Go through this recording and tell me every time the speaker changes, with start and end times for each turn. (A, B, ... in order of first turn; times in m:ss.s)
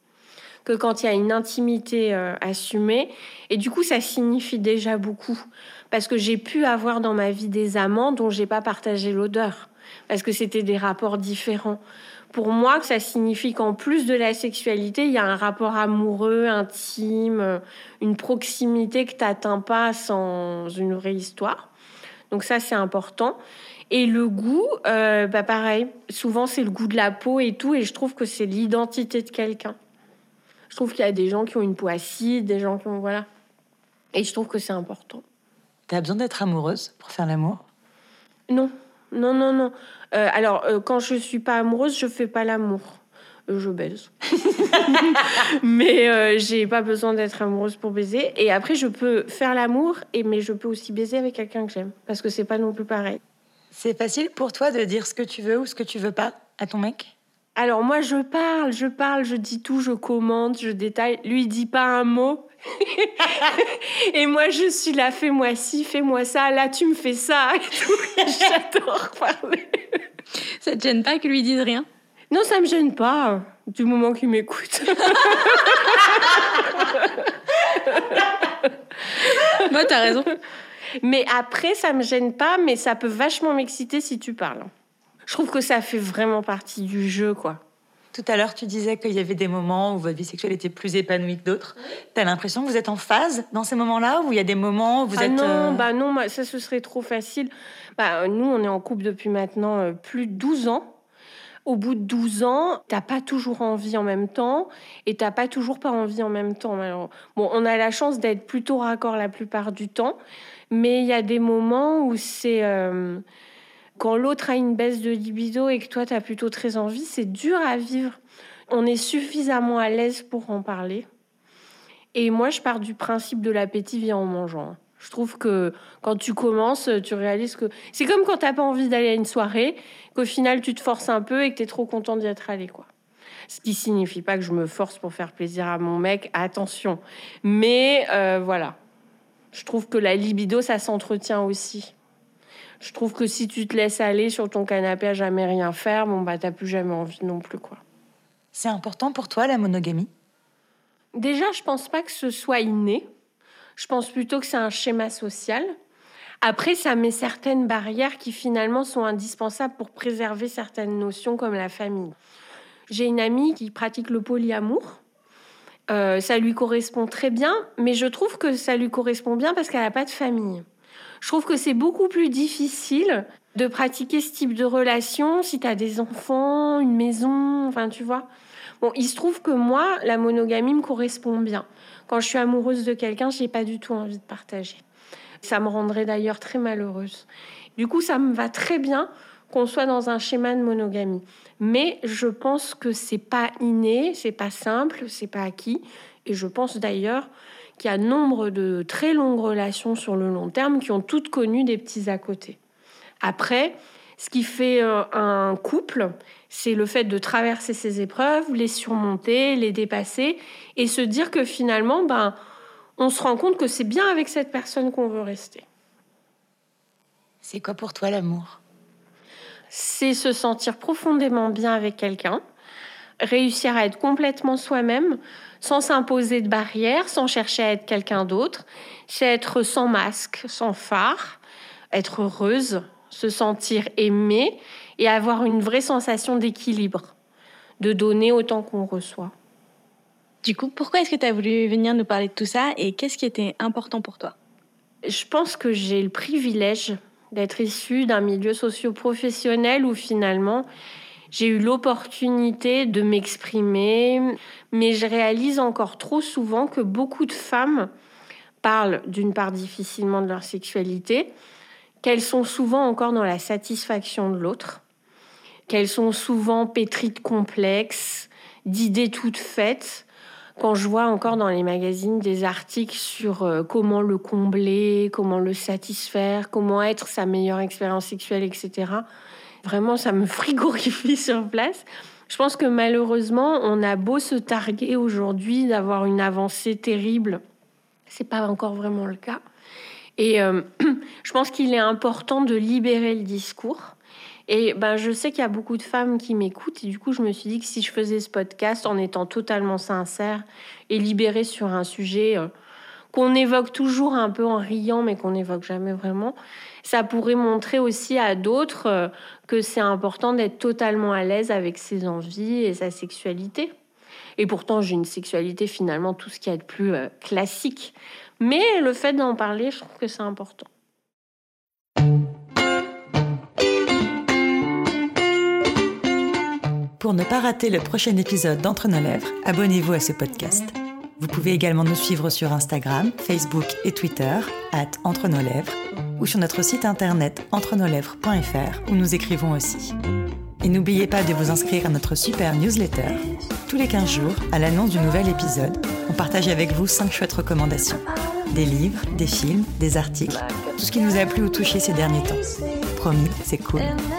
0:00.6-0:11.8 A
0:12.3-0:21.7 A
0:22.3-0:23.4 A
0:23.9-0:29.8 A
0:30.7-0:33.2 A
0:34.1-0:35.2 A
0:35.9-0:37.6 B
0:38.5-0:53.2 A
0:53.7-0:57.1 B
0:57.6-1:09.8 A
1:10.6-1:11.8 C
1:12.3-1:17.2 A
1:17.8-1:18.2 A
1:19.5-1:20.3 C
1:21.0-1:24.7 A
1:25.3-1:27.6 A
1:28.1-1:35.8 B
1:35.2-1:41.0 A
1:41.6-1:50.2 A
1:50.7-1:53.2 A
1:54.0-1:58.2 A
1:58.7-2:01.0 A
2:02.1-2:12.9 A
2:13.5-2:18.8 A
2:19.5-2:21.9 A
2:22.8-2:27.8 A
2:28.5-2:30.1 B
2:31.2-2:33.1 A
2:33.8-2:35.7 A
2:36.4-2:42.1 A
2:42.9-2:45.0 A
2:45.9-2:50.6 A
2:51.2-2:58.3 A
2:58.8-3:04.8 A
3:05.4-3:22.6 A
3:23.2-3:32.4 A
3:33.0-3:35.6 A
3:37.4-3:38.6 B
3:39.7-3:42.4 A
3:43.2-3:51.4 A
3:51.9-3:57.1 A
3:57.8-3:59.3 A
4:00.4-4:04.3 C
4:05.0-4:10.6 A
4:11.3-4:17.9 A
4:18.6-4:21.3 A
4:22.0-4:24.8 A
4:25.7-4:39.0 A
4:39.6-4:47.4 A
4:48.1-4:49.4 A
4:50.2-4:53.9 A
4:54.5-5:02.5 A
5:03.1-5:13.7 A
5:14.4-5:20.7 A
5:27.0-5:39.9 B
5:40.6-5:54.0 B